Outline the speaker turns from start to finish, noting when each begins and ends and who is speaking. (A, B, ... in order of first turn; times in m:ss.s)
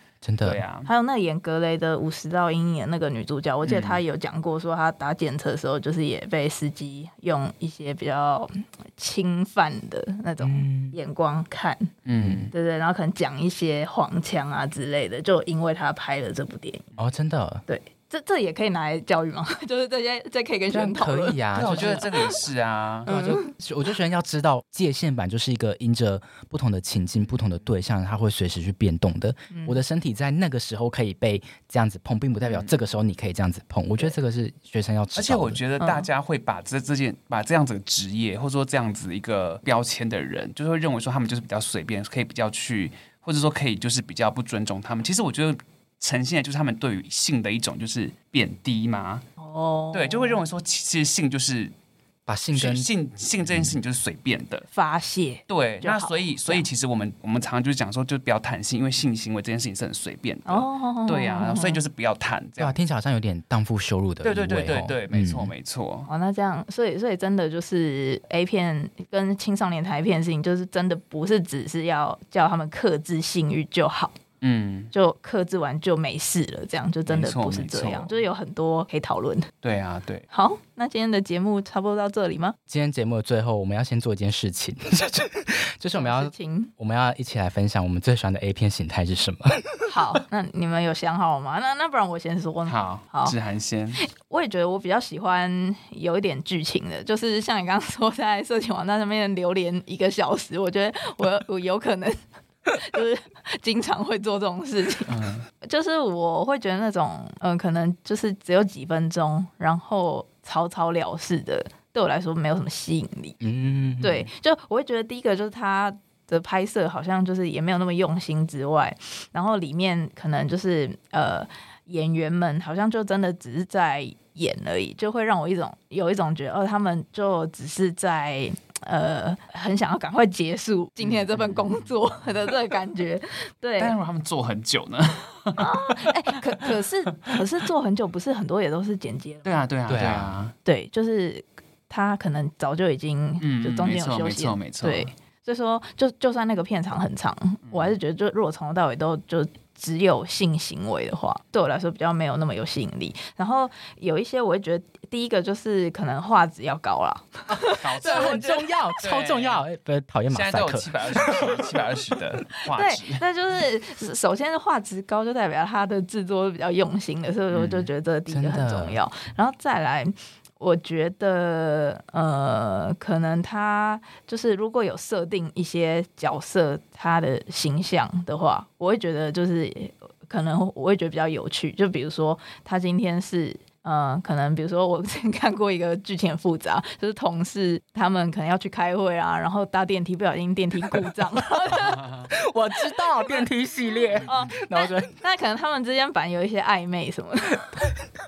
0:00.2-0:00.6 A
0:00.4-0:00.9 B
0:00.8-0:11.9 C
0:03.6-0:04.0 B
0:10.4-0:11.0 A
0:12.0-0:12.5 B
0:12.2-0:12.5 A
0:12.5-0:16.9 C
0:17.0-0:17.6 A
0:17.7-0:21.4 C
0:20.7-0:22.1 A
0:21.5-0:23.1 B
0:22.1-0:22.4 C
0:23.0-0:35.6 A
0:23.1-0:23.5 C
0:29.5-0:29.8 C
0:32.4-0:32.7 B
0:35.1-0:49.2 B
0:35.8-0:36.1 C
0:49.4-0:50.4 C
0:49.9-0:51.7 B
0:52.3-0:52.9 A
0:52.5-0:54.7 B
0:53.5-0:53.8 A
0:54.7-0:56.6 C
0:55.5-1:02.8 B
1:00.5-1:01.8 C
1:02.6-1:05.5 A
1:04.2-1:06.1 B
1:06.1-1:14.2 C
1:14.4-1:14.9 B
1:14.9-1:19.5 C
1:17.1-1:18.2 B
1:19.6-1:20.2 B
1:20.3-1:22.6 C
1:22.7-1:29.7 A
1:25.9-1:26.7 C
1:29.9-1:33.3 C
1:32.6-1:34.0 B
1:34.0-1:42.2 C
1:42.7-1:53.4 C
1:45.1-1:45.5 B
1:53.4-1:54.2 A
1:54.0-2:13.9 C
2:11.0-2:11.9 B
2:13.8-2:16.1 B
2:15.6-2:19.5 C
2:19.4-2:20.5 B
2:19.9-2:20.4 A
2:20.6-2:38.4 C
2:23.4-2:25.1 B
2:27.7-2:28.0 B
2:37.5-2:41.6 A
2:37.8-2:39.6 B
2:40.3-2:43.2 B
2:42.7-3:12.1 C
2:47.5-2:47.9 B
2:48.3-2:49.0 A
3:11.8-3:12.3 B
3:12.3-3:15.2 A
3:13.2-3:13.4 C
3:14.2-3:17.7 C